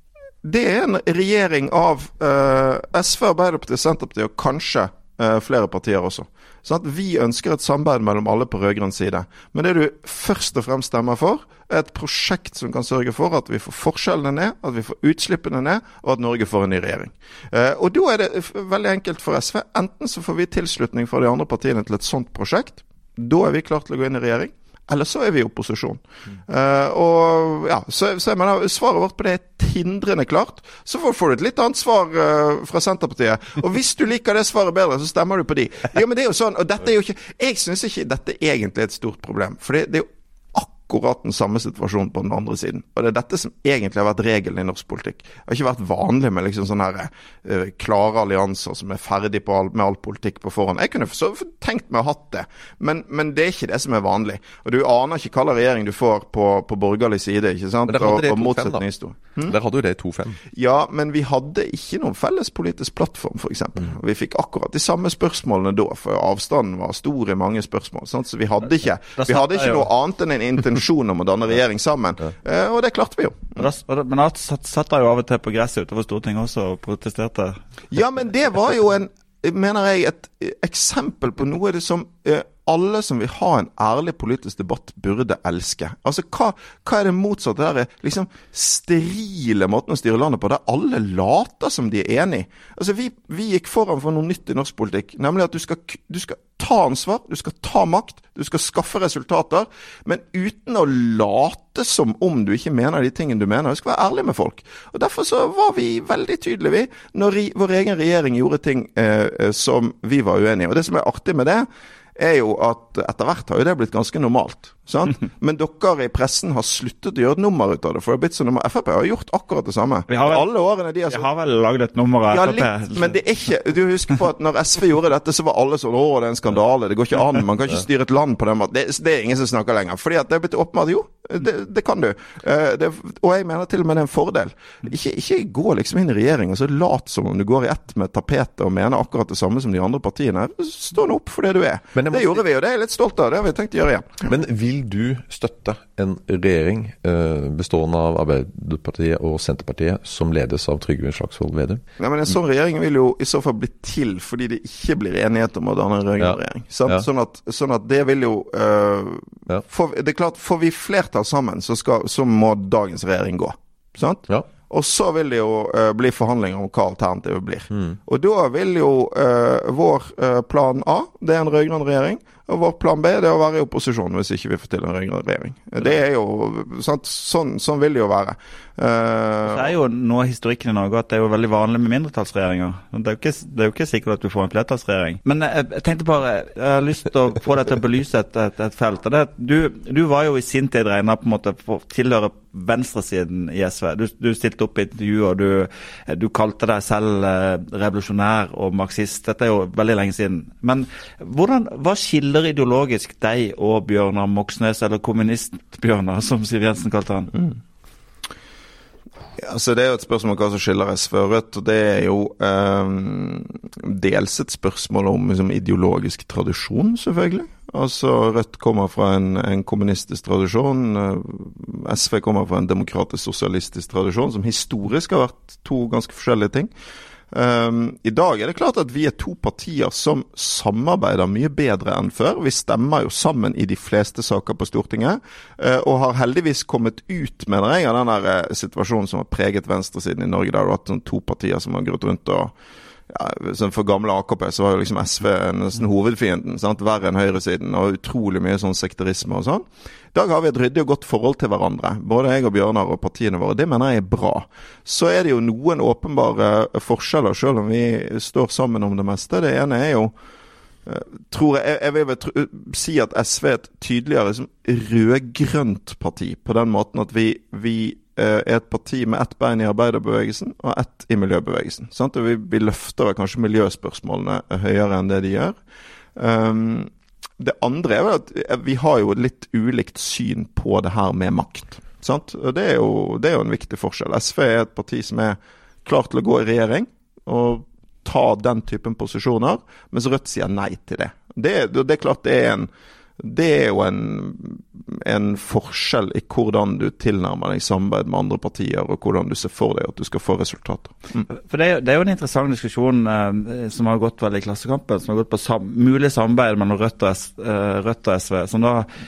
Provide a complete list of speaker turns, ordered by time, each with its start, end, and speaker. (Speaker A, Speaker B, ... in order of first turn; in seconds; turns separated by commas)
Speaker A: 0.4-59.5, Speaker B: 57.9-58.8, Speaker B: 59.4-60.4, Speaker A: 60.5-73.6, Speaker C: 69.2-69.9, Speaker C: 73.6-77.6, Speaker A: 77.9-121.3, Speaker C: 120.1-120.5, Speaker C: 121.1-123.2, Speaker A: 122.3-144.3, Speaker B: 141.9-142.4, Speaker B: 144.2-151.8, Speaker A: 152.0-179.7, Speaker B: 156.2-157.1, Speaker C: 179.5-207.3, Speaker A: 209.4-226.7, Speaker A: 227.3-242.5, Speaker A: 243.1-260.1, Speaker A: 260.9-275.6, Speaker A: 276.2-301.3, Speaker C: 301.4-308.9